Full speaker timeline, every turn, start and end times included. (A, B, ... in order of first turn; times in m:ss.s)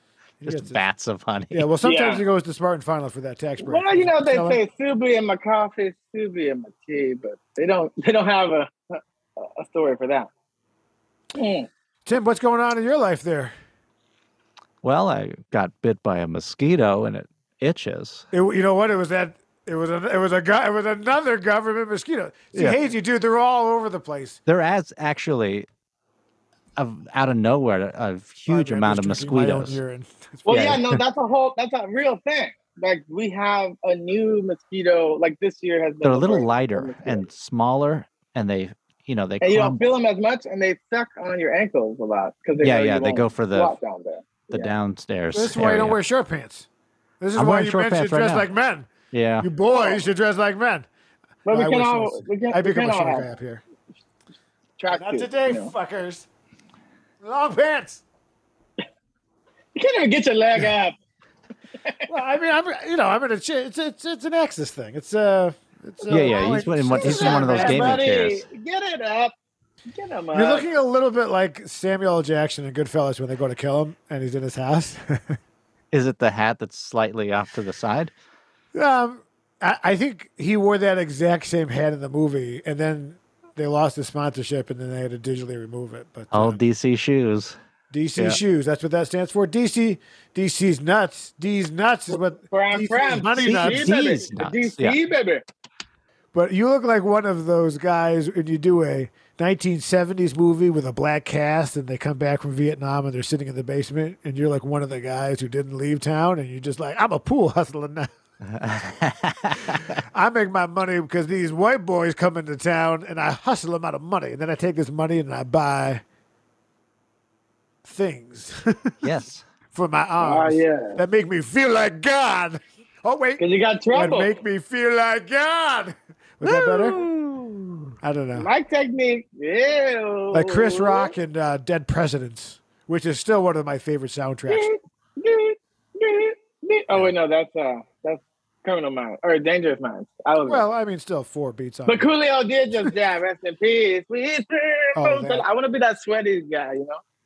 0:00.4-0:00.8 A
0:00.4-0:01.7 B
0:01.5-0:04.6 A
0:01.8-0:02.2 C
0:03.6-0:10.3 C
0:11.3-0:11.7 C
0:12.0-0:13.5 A
0:14.8-0:18.2 B
0:18.3-0:24.4 A
0:24.4-0:25.7 B
0:26.8-0:29.8 B
0:28.5-0:30.8 A
0:30.4-0:37.2 C
0:30.5-0:30.9 B
0:36.0-0:39.8 B
0:39.4-0:44.7 C
0:42.6-0:43.7 B
0:44.5-0:46.0 B
0:45.3-0:46.7 A
0:47.2-0:50.9 A
0:47.3-0:48.5 B
0:49.1-0:49.5 B
0:49.7-0:50.0 C
0:51.4-0:53.6 A
0:51.4-0:53.3 C
0:54.8-0:55.7 C
0:54.9-0:56.3 A
0:57.2-0:58.0 A
0:59.8-1:01.0 C
1:02.1-1:08.1 A
1:06.1-1:08.4 B
1:06.1-1:09.3 C
1:09.9-1:10.7 C
1:10.3-1:15.4 A
1:15.9-1:18.1 B
1:18.7-1:26.6 A
1:26.3-1:27.6 B
1:27.9-1:33.9 A
1:32.1-1:35.4 C
1:33.5-1:35.0 B
1:36.3-1:48.1 A
1:48.5-1:50.0 B
1:50.0-1:56.0 A
1:57.8-1:58.9 A
1:59.0-1:59.4 B
1:59.7-2:07.0 A
2:00.2-2:01.0 C
2:03.4-2:04.4 C
2:06.4-2:07.9 B
2:08.0-2:08.5 A
2:08.3-2:11.1 C
2:10.3-2:14.7 A
2:14.5-2:20.6 C
2:20.4-2:22.1 A
2:21.8-2:27.0 C
2:25.0-2:25.4 A